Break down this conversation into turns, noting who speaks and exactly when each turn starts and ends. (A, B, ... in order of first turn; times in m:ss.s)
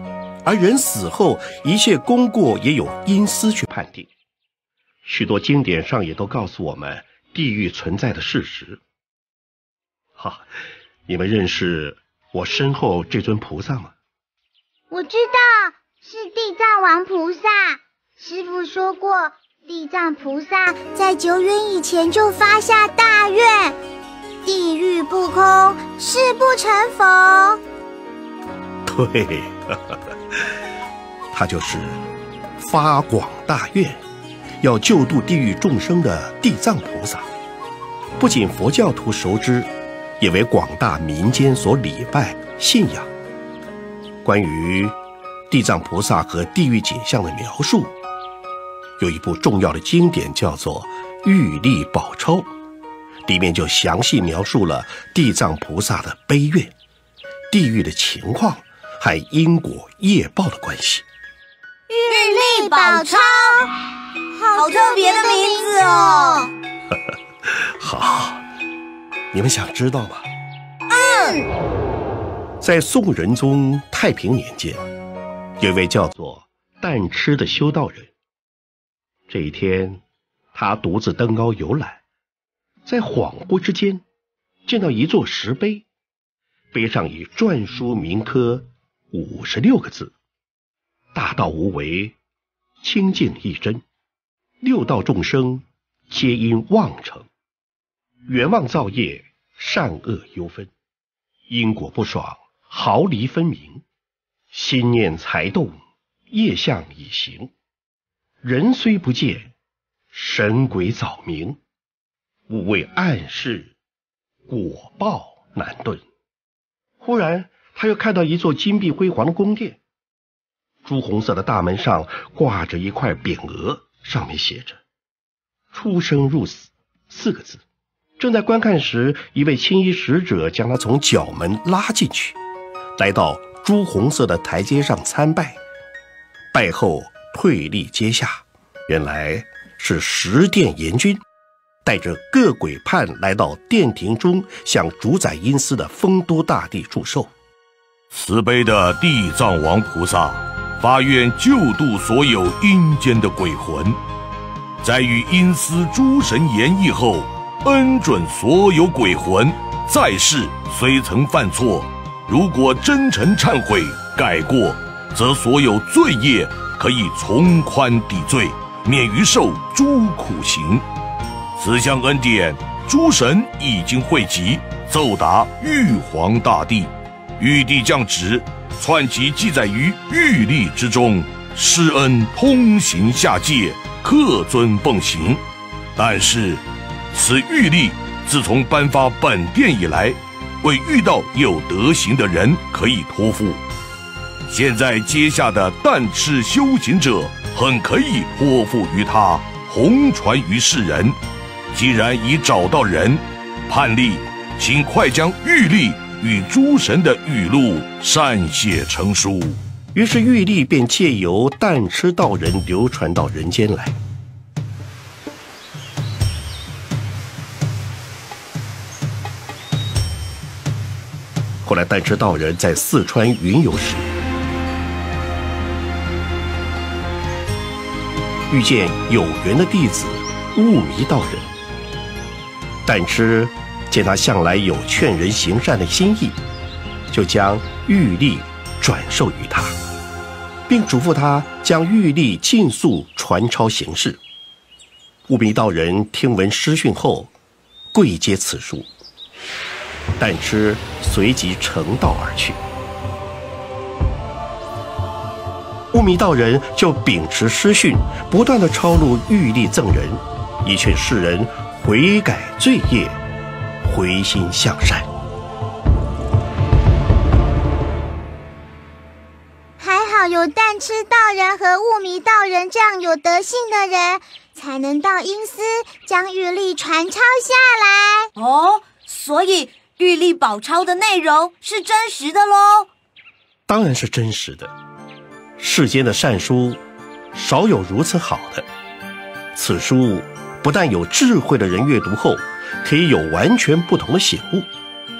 0:00.4-0:04.1 A
0:05.0-0:08.8 A
0:10.2-0:10.4 A
0:11.1-0:13.9 A
0:14.9-0:23.8 B
0:24.4-0:27.6 B
0:28.8-0:30.5 A
0:31.3-0:32.0 A
0:32.6-0:34.0 A
0:34.6-0:37.3 A
0:38.2-0:43.1 A
0:44.2-0:45.0 A
0:45.5-0:47.9 A
0:49.0-0:52.5 A
0:53.2-0:56.7 A
0:57.5-1:01.0 A
1:01.9-1:03.7 B
1:02.1-1:03.6 C
1:04.3-1:06.5 B
1:04.5-1:06.5 C
1:06.9-1:08.4 A
1:09.3-1:10.3 A
1:10.9-1:11.5 B
1:10.9-1:11.4 C
1:12.6-1:14.8 A
1:15.6-1:18.1 A
1:19.3-1:20.0 A
1:20.5-1:22.0 A
1:22.8-1:24.0 A
1:24.6-1:25.8 A
1:26.7-1:30.1 A
1:31.1-1:32.2 A
1:32.8-1:33.8 A
1:34.6-1:37.3 A
1:38.3-1:40.7 A
1:41.5-1:43.8 A
1:44.5-1:45.8 A
1:46.3-1:47.5 A
1:48.4-1:49.5 A
1:50.1-1:51.6 A
1:52.5-1:53.7 A
1:54.5-1:56.0 A
1:57.0-1:59.8 A
2:00.8-2:04.8 A
2:05.7-2:07.6 A
2:08.2-2:12.4 A
2:13.0-2:15.6 A
2:16.5-2:21.2 A
2:21.8-2:27.3 A
2:28.1-2:34.0 D
2:34.8-2:50.8 D
2:51.6-3:05.4 D
3:06.0-3:13.6 D
3:14.5-3:21.2 D
3:21.7-3:29.6 D
3:29.9-3:34.0 A
3:41.6-3:44.1 A
3:48.5-3:51.5 A
3:52.8-3:56.4 A
3:57.1-3:59.8 A
4:00.7-4:04.2 A
4:05.3-4:07.3 A
4:07.9-4:08.9 A
4:10.2-4:12.6 A
4:15.9-4:23.2 A
4:23.8-4:25.1 A
4:29.8-4:38.3 B
4:38.4-4:42.9 C
4:43.7-4:44.7 A
4:45.6-4:46.8 A
4:47.3-4:48.6 A
4:49.5-4:54.7 A